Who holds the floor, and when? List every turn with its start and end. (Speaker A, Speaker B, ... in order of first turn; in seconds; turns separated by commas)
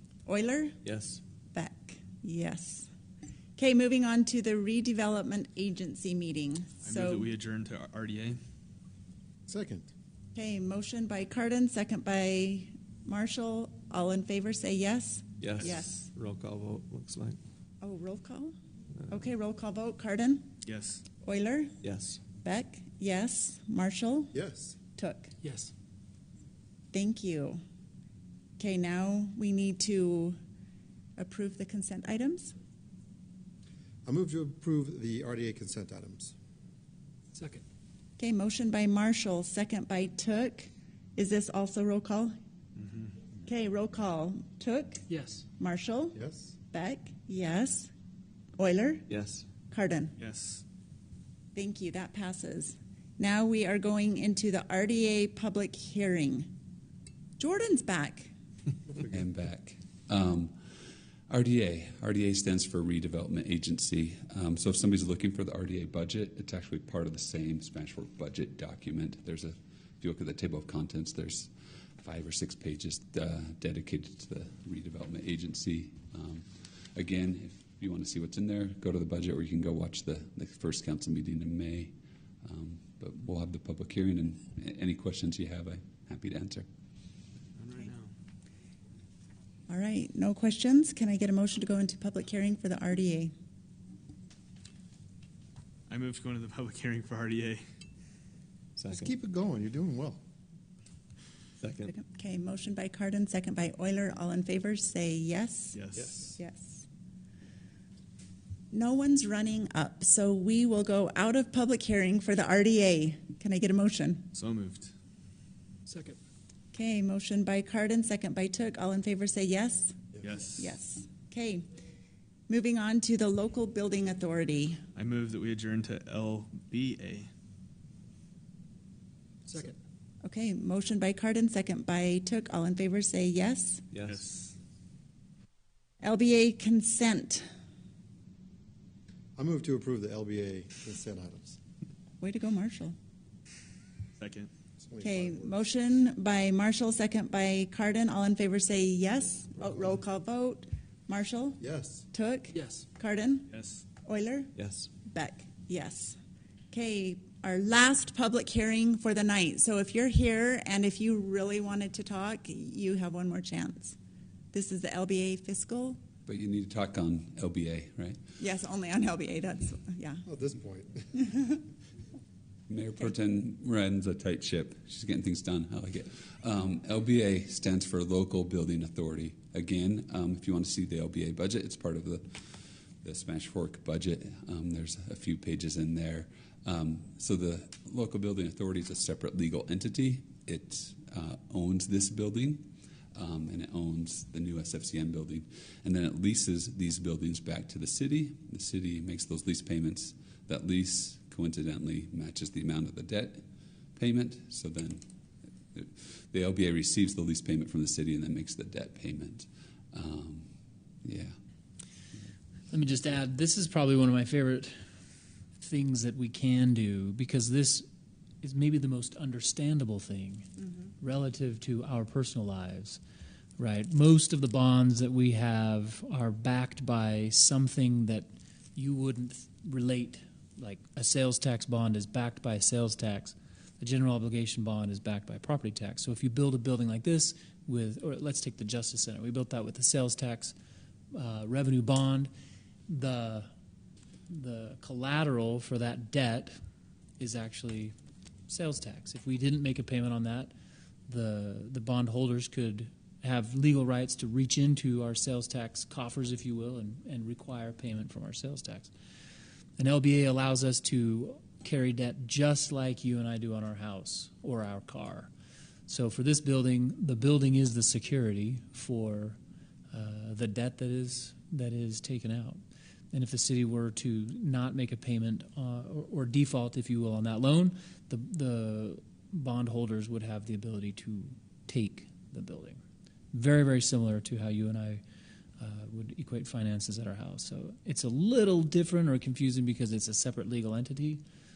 Speaker A: 0.3-0.8, Speaker B: 0.8-1.2, Speaker A: 1.5-2.9, Speaker A: 3.6-7.3, Speaker C: 6.8-8.4, Speaker D: 9.5-9.9, Speaker A: 10.3-16.0, Speaker B: 15.4-17.4, Speaker A: 17.8-18.5, Speaker B: 19.0-19.3, Speaker A: 19.1-20.5, Speaker C: 20.6-21.0, Speaker A: 21.2-21.7, Speaker B: 21.8-22.2, Speaker A: 22.4-24.3, Speaker D: 24.3-24.8, Speaker A: 24.9-25.3, Speaker E: 25.4-25.7, Speaker A: 26.9-27.6, Speaker A: 28.6-30.4, Speaker A: 31.2-32.5, Speaker D: 34.0-36.3, Speaker E: 37.4-37.6, Speaker A: 38.2-42.3, Speaker C: 42.8-43.1, Speaker A: 43.5-45.0, Speaker E: 45.1-45.5, Speaker A: 45.6-46.2, Speaker D: 46.1-46.5, Speaker A: 46.7-47.9, Speaker A: 48.6-49.1, Speaker B: 49.1-49.5, Speaker A: 49.7-50.1, Speaker C: 50.2-50.6, Speaker A: 51.5-56.5, Speaker A: 57.4-58.3, Speaker F: 59.0-60.5, Speaker F: 61.3-86.7, Speaker C: 87.6-88.1, Speaker A: 89.7-93.3, Speaker C: 95.9-97.6, Speaker B: 98.8-99.2, Speaker D: 98.9-100.2, Speaker B: 101.6-102.0, Speaker A: 101.9-105.8, Speaker C: 105.7-106.3, Speaker A: 106.4-106.9, Speaker A: 108.7-114.3, Speaker C: 114.3-114.9, Speaker E: 115.9-116.2, Speaker A: 116.7-121.7, Speaker C: 120.2-120.8, Speaker A: 122.5-124.8, Speaker C: 125.0-127.3, Speaker A: 130.2-133.8, Speaker B: 133.9-134.2, Speaker C: 134.0-134.5, Speaker A: 136.0-137.5, Speaker D: 139.4-141.6, Speaker A: 142.2-143.0, Speaker C: 144.2-144.5, Speaker D: 144.8-145.7, Speaker A: 145.0-151.6, Speaker D: 151.6-152.1, Speaker A: 152.1-153.5, Speaker E: 152.6-152.8, Speaker C: 153.5-153.8, Speaker A: 154.0-154.5, Speaker B: 154.6-154.9, Speaker A: 155.0-156.2, Speaker A: 156.7-164.0, Speaker A: 164.5-166.0, Speaker F: 166.3-168.2, Speaker A: 168.4-170.3, Speaker D: 170.3-171.2, Speaker F: 172.7-203.4, Speaker F: 204.0-205.0, Speaker F: 205.7-210.5, Speaker F: 211.0-211.4, Speaker E: 212.7-214.8, Speaker E: 215.6-217.9, Speaker E: 218.4-223.0, Speaker E: 223.6-240.6, Speaker E: 241.1-242.3, Speaker E: 242.9-243.5, Speaker E: 244.3-246.6, Speaker E: 247.2-247.9, Speaker E: 248.5-250.5, Speaker E: 251.1-258.9, Speaker E: 259.8-265.3, Speaker E: 265.9-269.4, Speaker E: 269.9-272.6, Speaker E: 273.1-282.8, Speaker E: 283.3-285.0, Speaker E: 285.6-291.2